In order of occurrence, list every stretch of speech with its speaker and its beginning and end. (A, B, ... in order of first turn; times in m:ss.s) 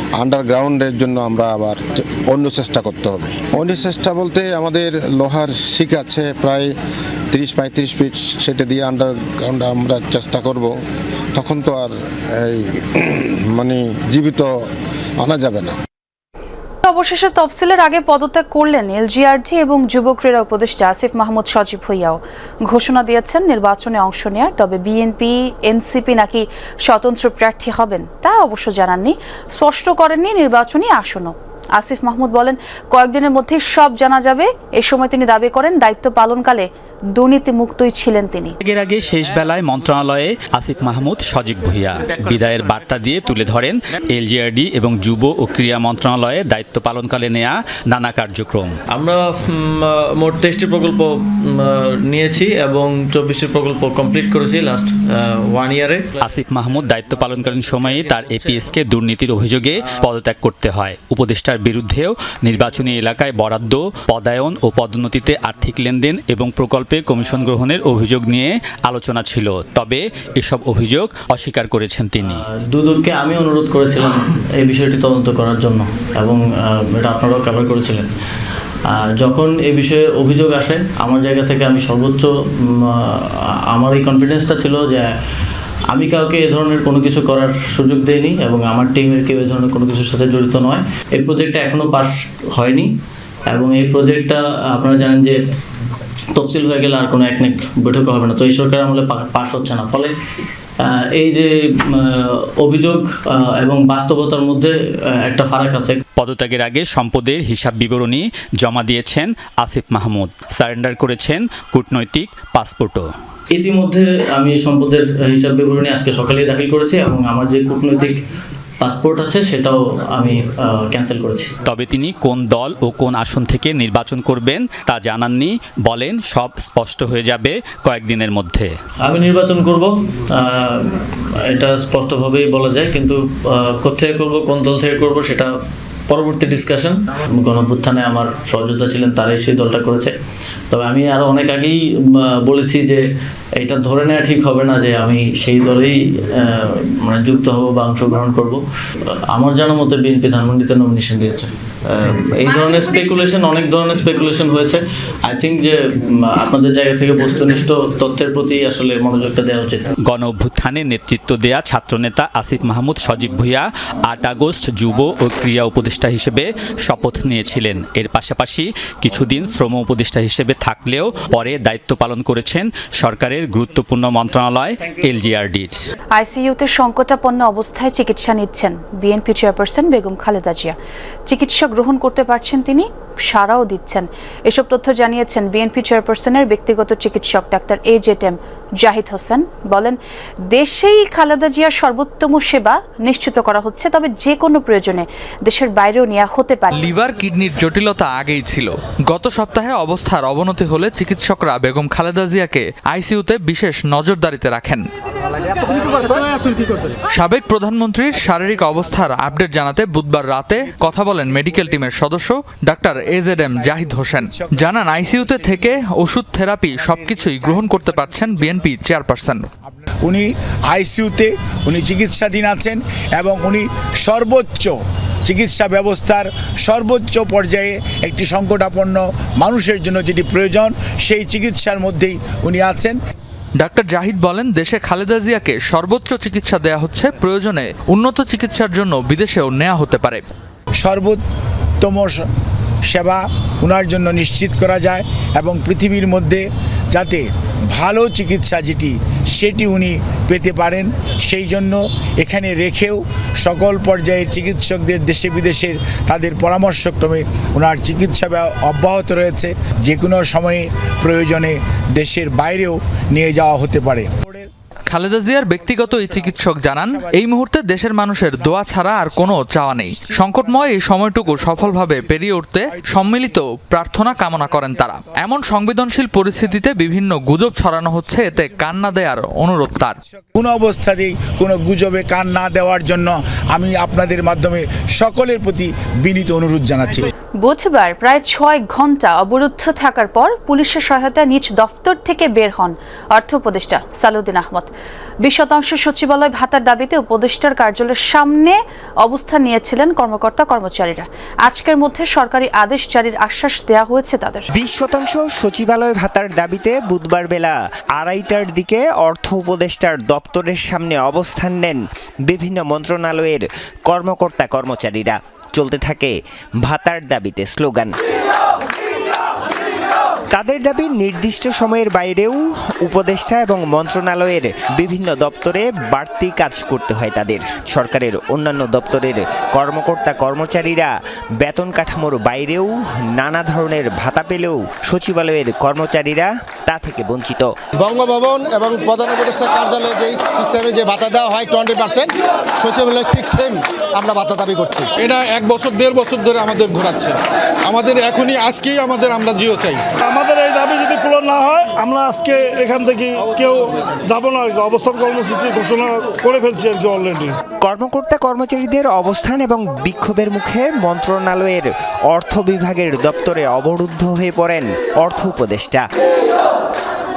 0:00.2-0:06.7 A
0:07.3-0:10.7 A
0:11.4-0:14.5 A
0:15.2-0:15.8 A
0:16.8-0:38.6 B
0:38.6-0:48.8 C
0:48.9-0:51.0 D
0:51.6-0:55.0 D
0:55.5-0:56.4 D
0:56.2-1:12.4 C
0:57.3-0:58.7 D
1:12.2-1:18.1 D
1:19.0-1:22.3 D
1:23.7-1:25.1 D
1:25.9-1:32.9 D
1:33.5-1:35.4 D
1:36.4-1:40.1 D
1:41.2-1:44.7 D
1:45.2-1:46.0 D
1:46.2-1:53.1 C
1:53.6-1:58.2 D
1:58.8-2:01.5 D
2:01.6-2:08.7 C
2:09.0-2:13.2 D
2:13.8-2:15.5 D
2:16.1-2:20.1 D
2:20.7-2:23.0 D
2:23.6-2:28.6 D
2:29.3-2:35.8 D
2:36.4-2:39.9 D
2:40.0-2:55.8 C
2:56.2-3:00.8 B
3:01.3-3:10.0 B
3:10.5-3:16.8 B
3:16.8-3:24.8 E
3:27.1-3:39.4 E
3:33.1-3:35.7 F
3:36.7-3:38.7 F
3:39.9-3:53.0 F
3:53.6-4:00.2 E
4:00.8-4:01.2 F
4:01.8-4:02.2 F
4:02.9-4:24.5 F
4:24.9-4:40.0 E
4:25.6-4:27.2 F
4:28.2-4:32.1 F
4:32.7-4:35.2 F
4:40.4-4:47.1 F
4:47.4-4:54.7 B
4:55.2-5:04.5 B
5:04.6-5:17.9 G
5:20.3-5:37.5 G
5:37.8-5:44.9 H
5:45.0-5:49.9 I
5:50.1-5:53.6 J
5:53.2-5:53.7 I
5:54.1-5:57.3 J
5:57.6-6:05.9 G